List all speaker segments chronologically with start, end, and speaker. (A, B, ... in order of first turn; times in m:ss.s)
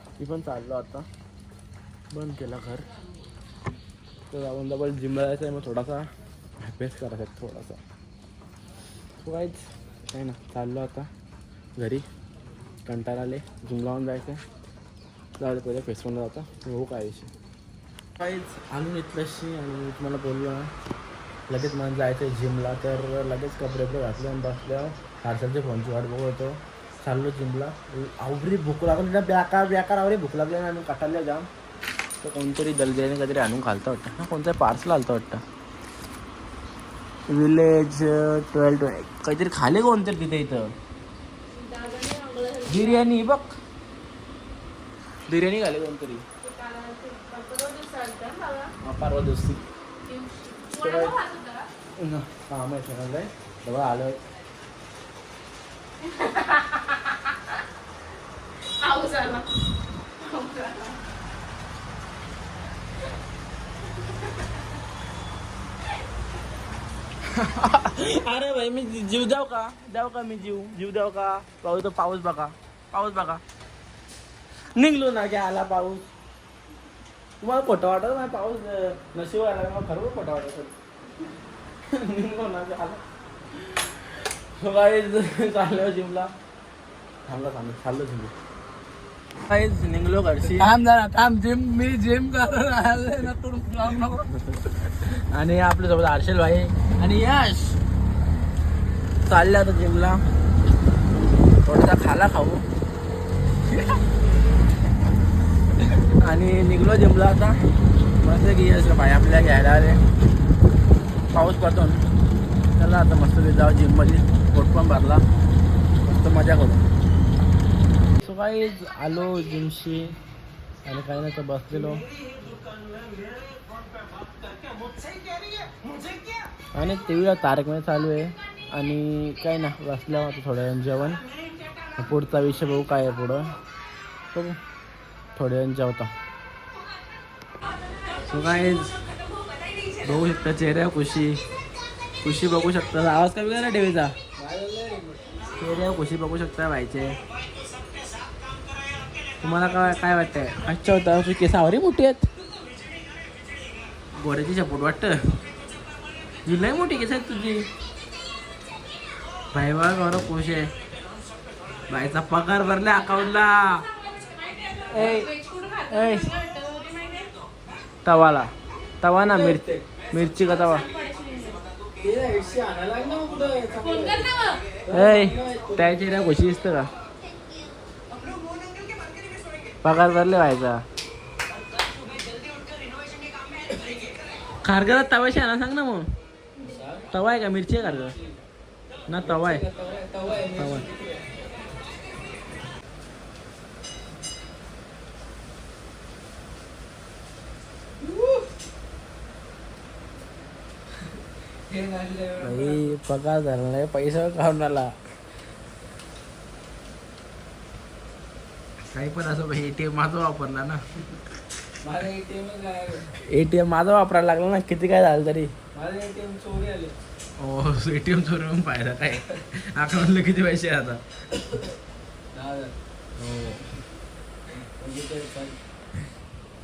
0:00.2-0:01.1 A
0:02.1-0:02.9 A
0:04.3-0:06.1 A
0:06.6-0:07.8 A
0:09.2-0:09.6 A
0:10.1-0:11.1 A
0:11.8-0:12.1 A
0:12.9-0:14.4 A
0:15.4-0:17.3 A
0:18.2-0:20.7 A
0:21.5-0:31.5 A
0:32.2-0:35.4 A
0:37.3-0:40.7 A
0:41.5-0:43.0 B
0:42.7-0:43.6 A
0:45.3-0:46.2 A
0:46.4-0:48.7 B
0:48.8-0:49.6 A
0:50.1-0:51.7 B
0:50.8-0:51.2 A
0:52.0-0:54.2 A
0:56.0-0:57.2 B
0:58.8-0:59.5 B
1:00.2-1:01.0 B
1:07.3-1:13.4 A
1:14.8-1:16.1 A
1:17.4-1:20.8 A
1:21.9-1:23.0 A
1:23.6-1:23.9 A
1:24.6-1:26.3 A
1:27.3-1:28.3 A
1:29.4-1:37.8 A
1:39.2-1:40.2 A
1:41.6-1:42.6 A
1:46.2-1:47.6 A
1:48.2-1:50.0 A
1:51.3-1:52.0 A
1:52.8-1:55.2 A
1:56.0-1:56.8 A
1:58.2-2:00.2 A
2:00.8-2:02.0 A
2:06.7-2:11.2 A
2:12.0-2:13.5 A
2:15.4-2:16.1 A
2:18.3-2:18.9 A
2:20.0-2:21.4 A
2:22.2-2:24.2 A
2:24.4-2:25.3 C
2:25.6-2:27.2 A
2:29.4-2:32.3 A
2:34.2-2:35.4 A
2:36.4-2:37.7 A
2:39.5-2:40.7 A
2:41.9-2:43.8 A
2:44.5-2:47.3 B
2:44.9-2:45.3 A
2:45.9-2:46.3 A
2:48.0-2:50.8 A
2:49.4-2:49.8 C
2:50.6-2:51.7 B
2:52.0-2:54.3 C
2:53.8-2:54.7 B
2:54.9-2:55.8 C
2:54.9-2:56.9 A
2:59.8-3:00.8 A
3:04.6-3:06.1 A
3:06.6-3:06.9 B
3:06.7-3:07.1 C
3:07.1-3:08.2 A
3:09.1-3:09.7 A
3:09.2-3:11.3 C
3:10.6-3:10.9 A
3:18.0-3:18.4 C
3:21.7-3:22.8 C
3:22.4-3:24.9 A
3:28.9-3:30.8 A
3:31.8-3:33.0 C
3:33.2-3:35.5 A
3:35.7-3:37.0 C
3:37.4-3:41.0 A
3:42.3-3:42.7 C
3:43.2-3:43.6 A
3:44.8-3:45.6 C